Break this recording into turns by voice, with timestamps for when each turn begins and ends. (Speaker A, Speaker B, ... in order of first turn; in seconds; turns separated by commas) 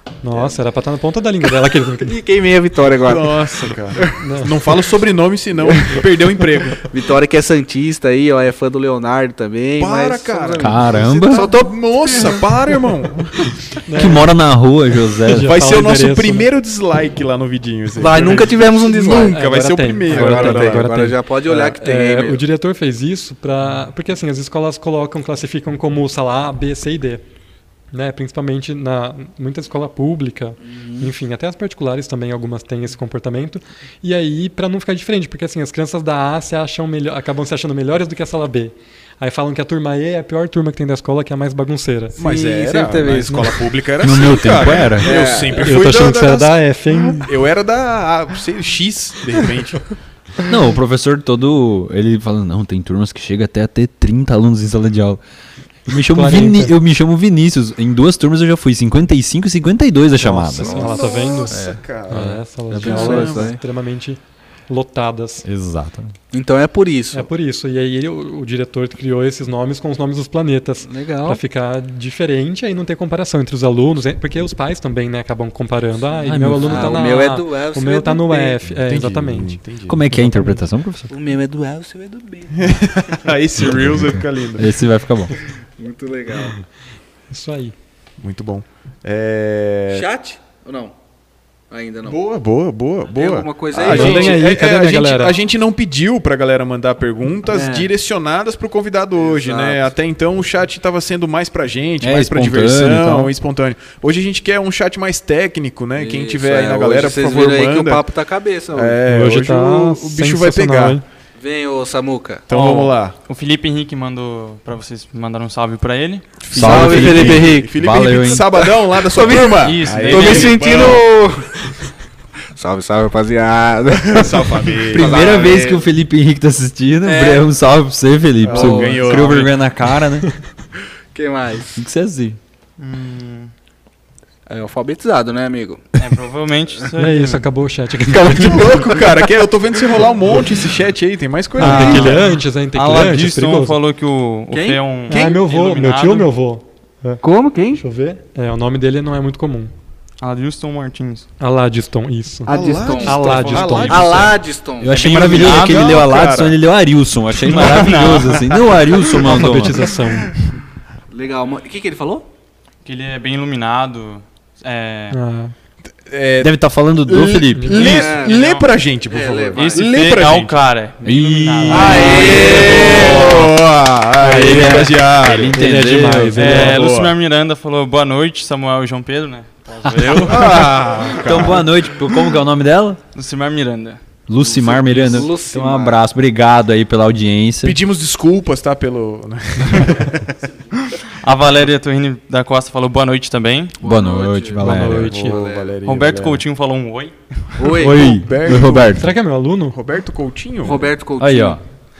Speaker A: 0.2-2.2, Speaker B: 0.3-0.6, Speaker B: 1.9-4.2, Speaker C: 3.0-6.8, Speaker A: 4.2-4.5, Speaker B: 5.6-6.0, Speaker B: 6.8-12.8, Speaker C: 9.8-13.5, Speaker D: 10.6-11.5, Speaker A: 13.9-14.3, Speaker D: 13.9-15.5, Speaker A: 15.2-16.4, Speaker C: 15.4-20.9, Speaker B: 17.9-19.4, Speaker A: 19.2-27.2, Speaker B: 20.1-22.4, Speaker A: 27.9-42.2, Speaker B: 30.6-31.1, Speaker C: 42.2-49.8, Speaker B: 42.2-43.5, Speaker D: 44.0-45.1, Speaker B: 45.0-45.8, Speaker A: 45.6-47.3, Speaker D: 50.4-55.2, Speaker D: 55.9-61.0, Speaker A: 56.1-56.7, Speaker A: 60.2-61.6, Speaker C: 60.5-63.5, Speaker B: 61.5-63.6, Speaker A: 62.1-65.4, Speaker D: 65.4-66.2, Speaker B: 66.3-67.3, Speaker A: 67.1-80.6, Speaker B: 70.8-71.4, Speaker D: 76.2-76.6, Speaker B: 76.6-78.6, Speaker C: 78.8-80.1, Speaker D: 79.8-81.1, Speaker B: 81.1-82.8, Speaker C: 82.5-84.8, Speaker D: 83.6-85.3, Speaker B: 85.8-86.6, Speaker A: 87.3-87.7, Speaker C: 88.2-90.1, Speaker B: 89.9-90.9, Speaker B: 91.7-92.2, Speaker C: 92.0-108.0, Speaker B: 93.1-94.5, Speaker A: 93.8-95.4, Speaker B: 97.5-97.9, Speaker B: 99.2-99.9, Speaker D: 102.0-103.3, Speaker B: 106.0-109.0, Speaker C: 108.7-111.0, Speaker A: 109.0-111.0, Speaker B: 111.4-112.5, Speaker C: 112.5-113.2, Speaker E: 112.5-117.1, Speaker C: 116.4-121.1, Speaker B: 116.5-117.7, Speaker D: 116.5-118.6, Speaker B: 118.4-121.6, Speaker E: 119.5-120.9, Speaker B: 122.5-125.9, Speaker C: 123.9-125.2, Speaker D: 124.9-130.3, Speaker B: 127.0-127.5, Speaker C: 128.4-129.5, Speaker B: 128.4-129.3, Speaker E: 129.1-129.5, Speaker B: 131.1-131.8, Speaker D: 131.8-132.4, Speaker E: 132.8-133.5, Speaker B: 134.5-136.0, Speaker E: 136.0-137.4, Speaker A: 137.0-138.9, Speaker C: 138.1-142.3, Speaker B: 138.5-139.1, Speaker A: 141.6-143.8, Speaker E: 141.6-146.3, Speaker B: 144.5-144.9, Speaker A: 145.1-147.2, Speaker C: 145.1-145.4, Speaker B: 147.2-147.8, Speaker A: 147.8-149.7, Speaker E: 150.2-151.3, Speaker A: 151.4-152.5, Speaker B: 152.4-155.1, Speaker C: 152.5-154.5, Speaker A: 153.0-154.0, Speaker E: 153.2-154.2, Speaker D: 154.8-159.9, Speaker E: 154.8-156.0, Speaker C: 155.3-156.6, Speaker E: 157.4-159.0, Speaker A: 159.1-160.3, Speaker B: 161.1-162.3, Speaker E: 162.8-165.2, Speaker A: 165.1-165.5, Speaker C: 166.1-170.6, Speaker D: 166.4-168.0, Speaker A: 167.5-167.8, Speaker B: 167.8-168.4, Speaker E: 167.9-168.7, Speaker B: 169.0-169.9, Speaker E: 169.5-173.5, Speaker D: 171.0-172.3, Speaker B: 171.7-173.4, Speaker C: 171.8-175.7, Speaker A: 174.2-176.8, Speaker D: 174.3-176.7, Speaker E: 176.3-181.2, Speaker C: 176.5-177.1, Speaker D: 179.8-183.0, Speaker C: 180.2-181.8, Speaker E: 183.1-184.2, Speaker D: 184.3-187.8, Speaker B: 184.4-186.0, Speaker C: 187.6-190.3, Speaker E: 191.0-193.8, Speaker D: 193.8-195.2, Speaker B: 193.8-195.8, Speaker A: 194.6-195.4, Speaker C: 195.0-196.4, Speaker E: 195.8-197.7, Speaker B: 197.6-198.1, Speaker D: 197.7-199.1, Speaker C: 197.9-199.0, Speaker A: 199.0-199.8, Speaker C: 199.7-200.9, Speaker B: 200.6-201.6, Speaker D: 201.2-201.6